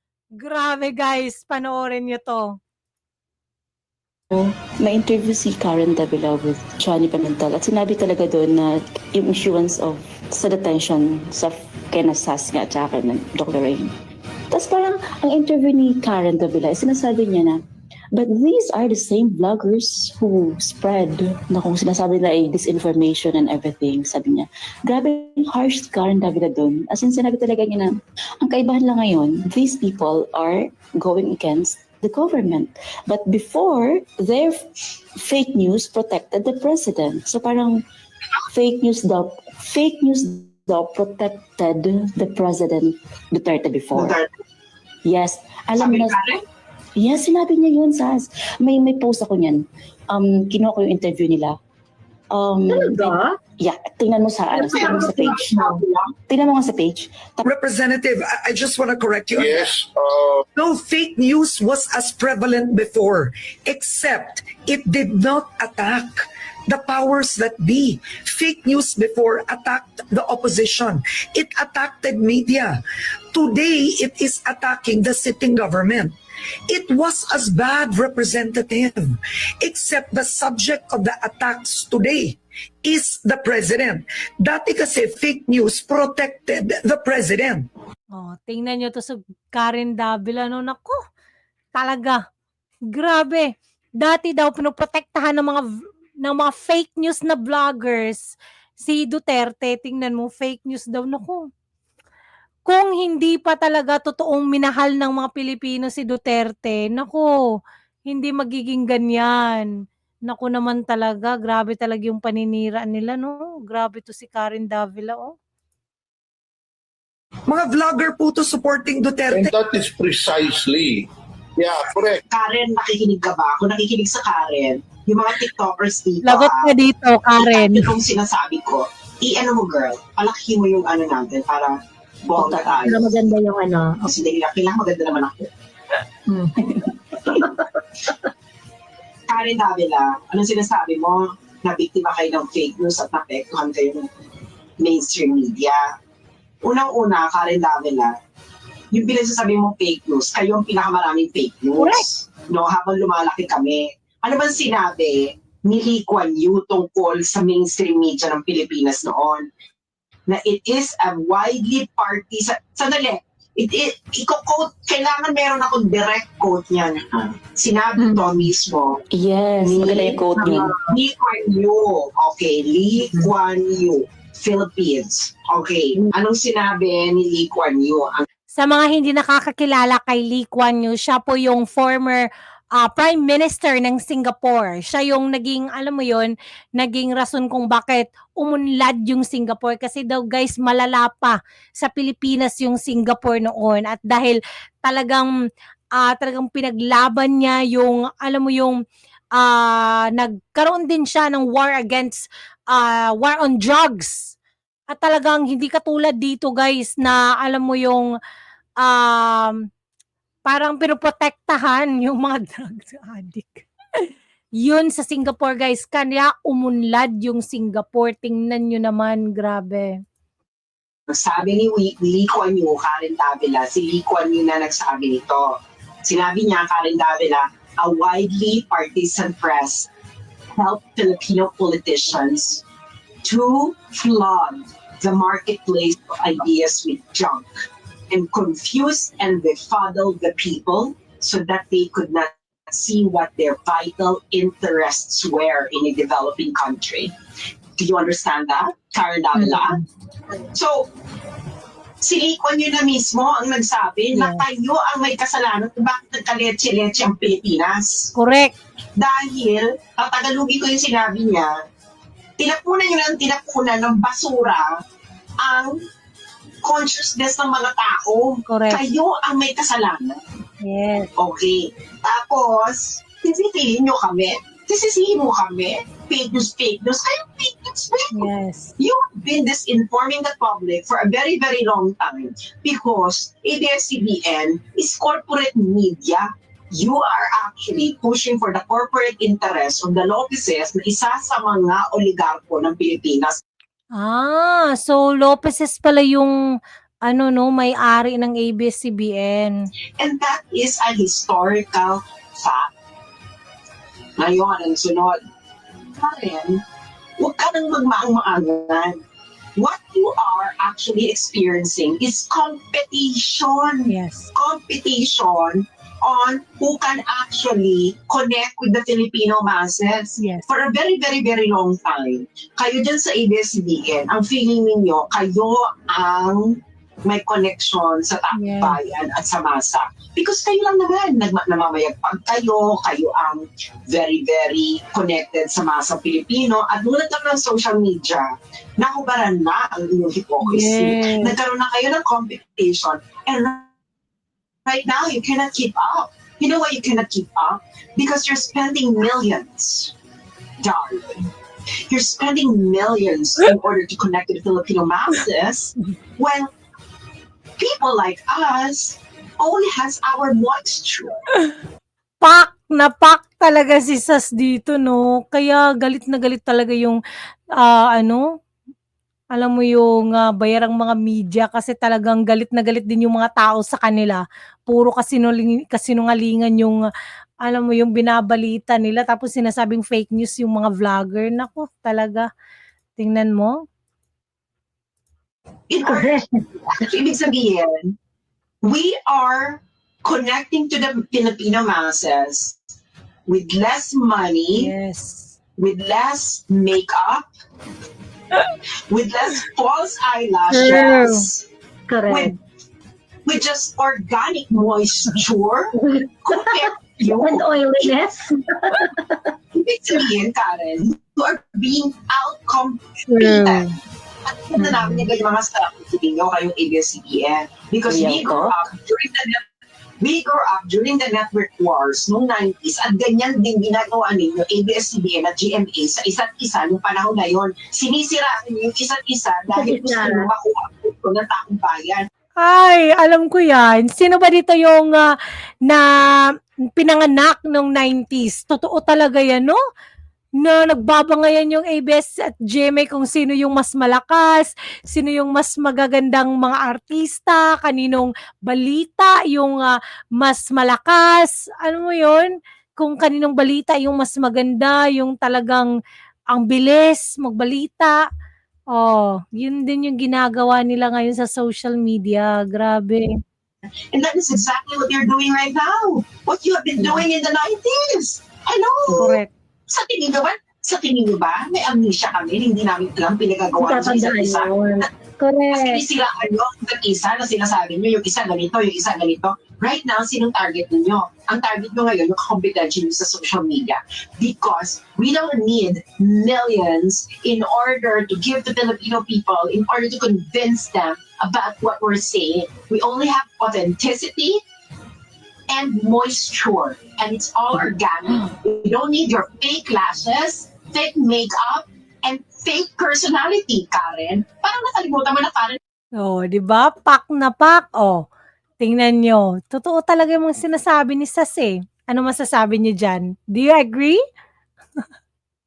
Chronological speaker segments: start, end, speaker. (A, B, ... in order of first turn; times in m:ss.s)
0:00.4-0:02.5 A
0:04.3-0:13.9 B
0:14.5-0:34.6 B
0:35.2-0:37.8 B
0:38.5-0:44.1 B
0:43.9-0:44.3 C
0:45.0-0:46.2 B
0:45.7-0:46.4 C
0:47.0-0:51.6 B
0:52.3-0:55.6 B
0:52.7-0:53.3 D
0:54.5-0:55.7 D
0:54.7-0:56.1 C
0:56.3-0:57.5 B
0:57.4-0:59.7 E
0:59.4-1:00.4 F
1:00.5-1:12.8 E
1:13.3-1:16.1 E
1:16.7-1:27.7 E
1:28.1-1:31.0 A
1:31.7-1:32.2 A
1:32.9-1:35.6 A
1:36.2-1:41.4 A
1:42.6-1:47.3 A
1:48.1-1:49.7 A
1:50.3-1:55.3 A
1:57.5-1:59.5 E
1:59.3-2:02.2 F
2:02.3-2:06.7 C
2:06.2-2:07.9 A
2:07.4-2:13.1 C
2:12.4-2:14.1 D
2:14.0-2:15.5 C
2:16.3-2:16.7 D
2:19.3-2:24.1 C
2:24.8-2:25.8 C
2:26.6-2:28.1 C
2:28.9-2:39.5 C
2:31.8-2:32.0 A
2:40.3-2:49.0 C
2:48.0-2:48.5 D
2:49.1-2:50.8 B
2:49.6-2:50.3 C
2:50.4-2:50.9 D
2:50.9-2:58.2 C
2:53.0-2:53.3 D
2:58.5-3:15.3 A
3:16.0-3:18.8 A
3:19.3-3:24.3 A
3:24.9-3:28.1 A
3:28.8-3:29.6 A
3:30.4-3:33.6 A
3:34.6-3:40.0 A
3:41.1-3:49.9 C
3:50.5-3:52.6 C
3:53.2-3:57.5 C
3:58.1-4:07.1 C
4:07.8-4:09.8 C
4:10.5-4:10.8 C
4:12.0-4:18.1 C
4:14.1-4:14.4 A
4:18.1-4:18.5 A
4:19.0-4:21.5 C
4:22.4-4:24.7 C
4:25.4-4:25.8 C
4:26.6-4:30.2 C
4:28.5-4:28.8 A
4:30.6-4:31.1 A
4:31.2-4:38.2 C
4:38.1-4:38.7 A
4:38.8-4:53.4 C
4:54.0-4:56.3 A
4:57.0-4:59.7 A
5:00.0-5:02.7 C
5:04.2-5:05.2 C
5:06.0-5:06.6 C
5:07.2-5:09.0 C
5:09.6-5:38.3 C
5:13.9-5:14.3 A
5:20.2-5:20.5 A
5:28.3-5:28.8 A
5:38.8-5:43.7 C
5:40.4-5:41.4 A
5:44.7-5:49.9 C
5:50.6-5:51.3 C
5:51.9-5:56.5 C
5:57.6-6:01.2 C
6:02.2-6:07.0 A
6:07.6-6:08.2 A
6:09.3-6:16.8 A
6:17.4-6:22.3 A
6:23.0-6:23.6 A
6:25.7-6:27.9 C
6:25.8-6:26.2 D
6:28.6-6:32.5 C
6:33.3-6:34.7 C
6:34.5-6:35.3 A
6:35.6-6:37.2 C
6:38.9-6:41.4 C
6:40.5-6:41.2 A
6:41.9-6:42.3 D
6:42.0-6:42.3 C
6:43.2-6:45.7 C
6:45.7-6:49.3 D
6:46.2-6:48.0 C
6:49.6-6:53.6 C
6:53.1-6:53.7 A
6:54.5-6:59.4 C
6:54.6-6:55.1 D
6:57.9-6:58.6 B
7:00.0-7:12.1 C
7:09.5-7:10.3 D
7:12.4-7:15.1 A
7:16.7-7:19.6 A
7:20.4-7:35.7 A
7:36.3-7:38.0 A
7:38.7-7:43.1 A
7:43.9-7:54.8 C
7:46.8-7:47.0 D
7:48.9-7:49.3 A
7:53.6-7:55.8 D
7:55.5-8:14.4 C
8:15.5-8:25.6 C
8:26.0-8:28.0 A
8:28.6-8:34.0 A